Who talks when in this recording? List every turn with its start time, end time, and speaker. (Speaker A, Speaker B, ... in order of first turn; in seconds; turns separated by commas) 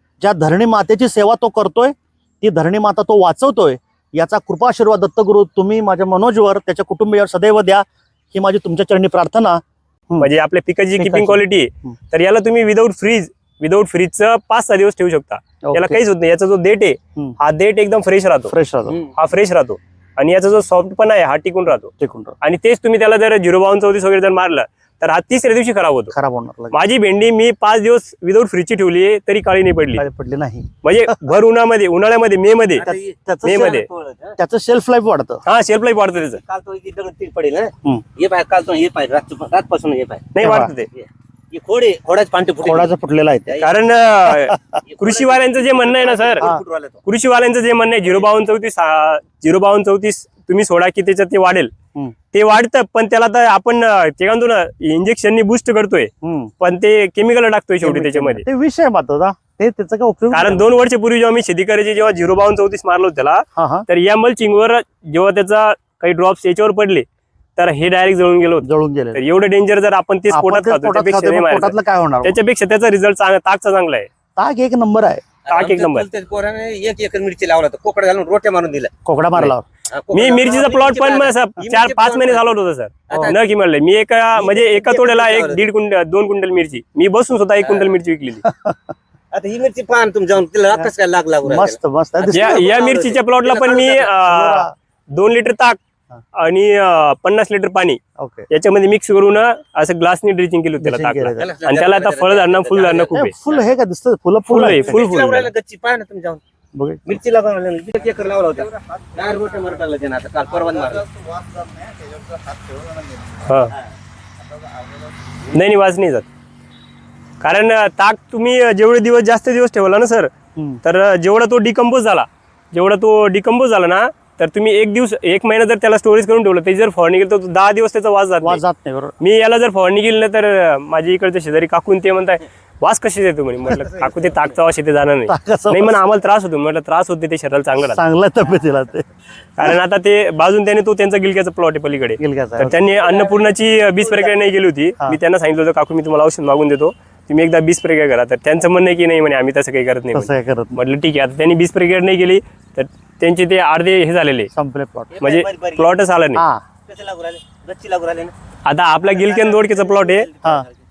Speaker A: 0.2-10.3, Speaker B: 10.2-26.1, Speaker A: 11.0-11.9, Speaker A: 15.6-16.0, Speaker A: 18.5-18.9, Speaker A: 22.0-22.4, Speaker A: 26.1-26.7, Speaker B: 26.7-30.0, Speaker A: 29.9-31.2, Speaker B: 30.8-32.9, Speaker C: 32.8-34.4, Speaker A: 32.8-33.8, Speaker B: 33.4-33.9, Speaker A: 34.4-35.4, Speaker B: 35.4-36.4, Speaker C: 36.4-40.3, Speaker B: 40.3-40.9, Speaker A: 40.4-40.7, Speaker C: 40.9-42.9, Speaker A: 42.6-43.6, Speaker C: 43.5-43.8, Speaker B: 43.6-46.5, Speaker A: 44.3-44.8, Speaker C: 44.8-47.0, Speaker B: 47.0-51.7, Speaker B: 52.3-58.4, Speaker A: 56.2-56.5, Speaker A: 57.8-60.6, Speaker B: 60.3-74.1, Speaker A: 63.5-63.9, Speaker A: 68.6-69.2, Speaker A: 70.3-72.3, Speaker A: 74.3-75.2, Speaker C: 75.5-78.9, Speaker B: 75.5-76.1, Speaker A: 79.0-79.6, Speaker C: 79.9-82.6, Speaker B: 80.1-88.5, Speaker C: 83.1-83.3, Speaker C: 84.3-85.6, Speaker C: 87.6-87.9, Speaker A: 88.4-88.9, Speaker C: 89.3-94.2, Speaker A: 91.4-92.7, Speaker B: 92.3-95.8, Speaker A: 94.2-94.7, Speaker B: 96.3-103.3, Speaker A: 98.2-98.5, Speaker A: 100.8-101.5, Speaker C: 101.4-103.6, Speaker A: 103.1-105.5, Speaker B: 104.5-105.1, Speaker C: 104.8-106.4, Speaker A: 106.7-107.2, Speaker C: 107.0-111.1, Speaker A: 111.1-112.0, Speaker C: 112.5-113.0, Speaker B: 113.4-113.7, Speaker B: 115.5-116.3, Speaker B: 117.4-120.3, Speaker A: 120.5-120.8, Speaker B: 120.8-128.6, Speaker A: 128.4-129.2, Speaker B: 129.2-138.0, Speaker A: 135.3-136.0, Speaker A: 137.9-139.1, Speaker B: 139.6-154.5, Speaker A: 142.2-142.7, Speaker C: 142.8-144.4, Speaker A: 150.1-150.8, Speaker A: 154.5-155.2, Speaker C: 155.1-156.0, Speaker B: 155.2-156.4, Speaker A: 156.3-156.6, Speaker C: 156.8-158.3, Speaker B: 158.6-160.3, Speaker C: 159.0-160.8